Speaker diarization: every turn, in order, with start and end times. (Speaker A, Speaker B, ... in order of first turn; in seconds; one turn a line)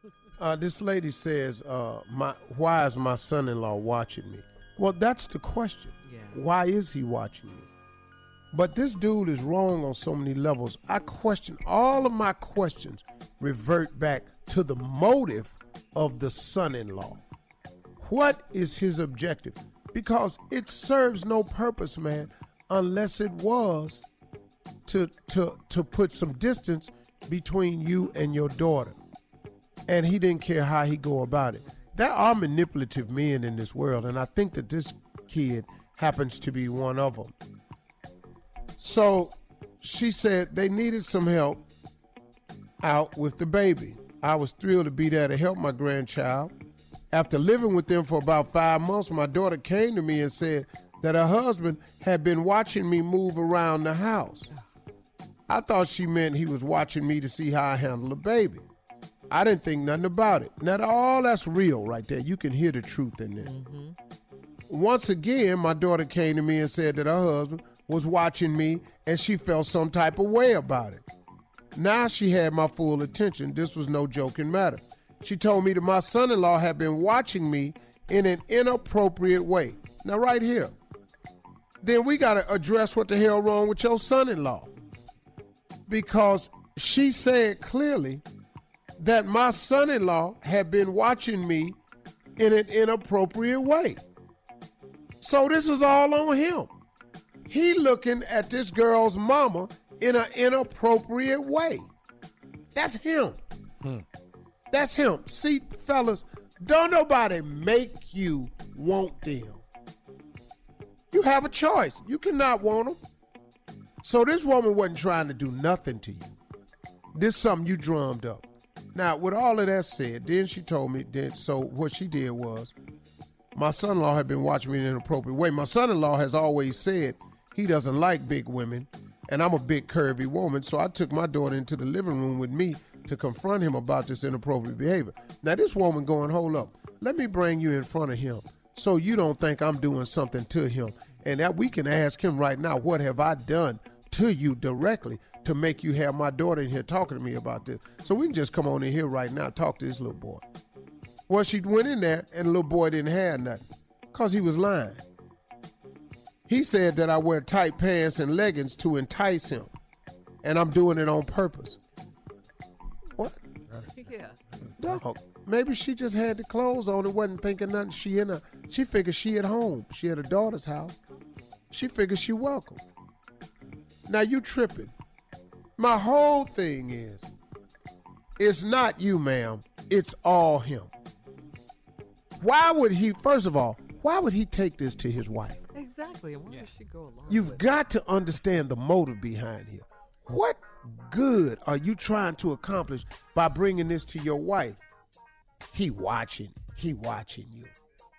Speaker A: 0.4-7.7
Speaker B: 6.1-6.4
Speaker A: 8.5-17.2
Speaker A: 18.0-24.1
Speaker A: 24.9-29.0
Speaker A: 29.9-37.4
Speaker A: 38.8-41.6
Speaker A: 42.8-46.5
Speaker A: 47.1-54.5
Speaker A: 55.5-58.7
Speaker A: 59.3-63.5
Speaker B: 63.4-64.0
Speaker A: 64.7-71.0
Speaker A: 71.8-80.8
Speaker A: 81.8-84.7
Speaker A: 85.9-88.2
Speaker A: 89.0-91.8
Speaker A: 92.4-94.0
Speaker A: 95.2-96.7
Speaker A: 97.5-101.9
Speaker A: 102.7-103.4
Speaker A: 104.7-109.6
Speaker A: 111.1-113.0
Speaker A: 114.0-116.3
Speaker A: 117.1-122.7
Speaker A: 123.5-150.4
Speaker A: 151.3-155.0
Speaker A: 156.5-159.7
Speaker A: 160.4-161.8
Speaker B: 163.9-164.4
Speaker A: 164.8-171.0
Speaker A: 171.7-172.8
Speaker A: 174.1-174.9
Speaker A: 175.8-177.3
Speaker A: 178.4-180.9
Speaker A: 182.4-185.7
Speaker B: 185.7-187.7
Speaker A: 187.3-194.8
Speaker A: 195.7-197.8